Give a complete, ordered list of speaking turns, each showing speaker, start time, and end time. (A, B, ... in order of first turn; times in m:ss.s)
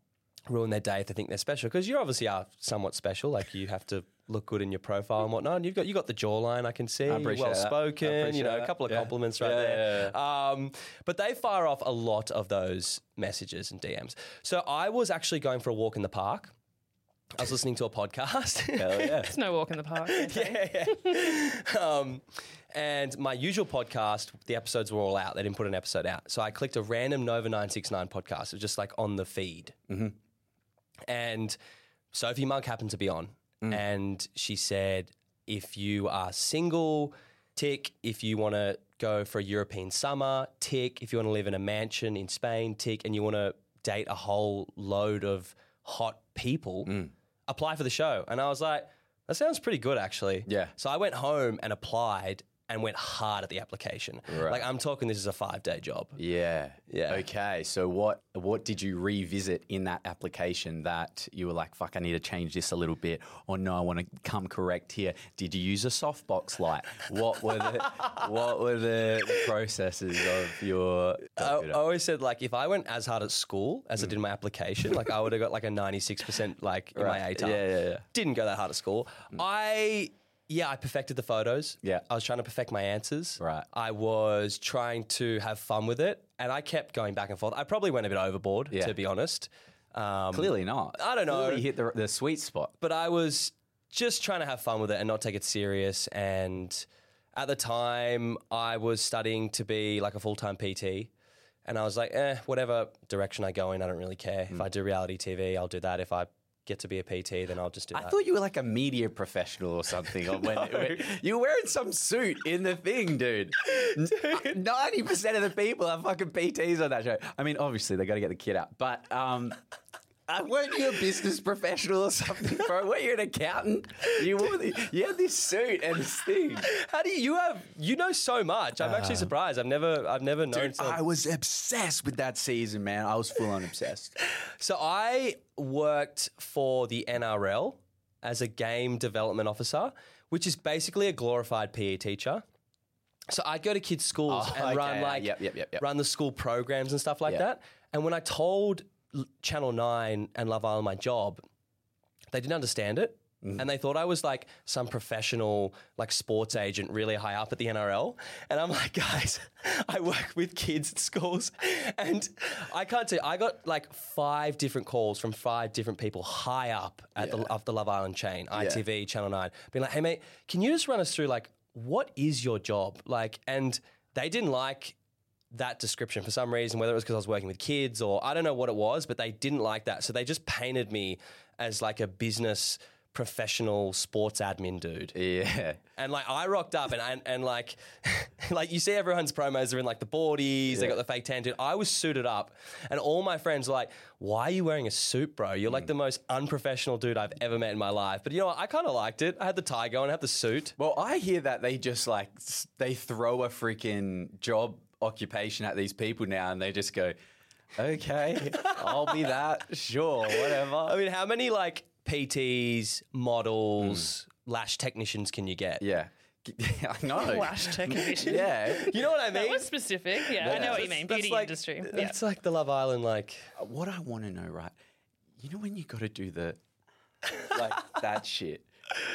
0:00.5-0:16.5 A
0:07.1-0:10.2 B
0:17.4-0:19.2 A
0:18.8-0:19.3 B
0:19.2-0:21.0 C
0:20.1-0:29.8 A
0:29.9-0:30.2 B
0:31.1-0:31.6 A
0:32.1-0:46.9 A
0:46.9-0:47.1 B
0:47.5-0:56.2 A
0:50.5-0:50.7 B
0:54.3-0:54.7 B
0:56.2-1:11.8 B
0:56.9-0:57.3 A
1:11.4-1:31.6 A
1:17.0-1:18.0 B
1:23.4-1:23.7 B
1:30.3-1:32.8 B
1:32.8-1:41.1 A
1:41.6-1:48.2 A
1:47.9-1:59.6 B
1:50.3-1:51.0 A
1:53.8-1:54.4 A
2:00.3-2:06.7 B
2:06.6-2:11.0 A
2:08.8-2:09.3 B
2:10.5-2:14.2 B
2:14.6-2:22.4 A
2:23.3-2:31.4 A
2:24.3-2:25.8 B
2:32.3-2:55.0 A
2:47.2-2:47.5 B
2:48.5-2:48.8 B
2:55.5-3:05.2 A
3:05.2-3:05.8 B
3:06.0-3:20.8 A
3:10.7-3:11.0 B
3:20.8-3:27.2 B
3:27.8-3:31.0 B
3:28.5-3:29.4 A
3:30.3-3:35.8 A
3:33.8-3:34.1 B
3:35.8-3:39.0 B
3:37.1-3:38.6 C
3:38.3-3:39.7 A
3:39.3-3:42.2 C
3:40.3-3:43.5 A
3:40.4-3:41.0 B
3:43.6-3:44.8 B
3:45.4-3:46.6 B
3:47.4-3:48.7 B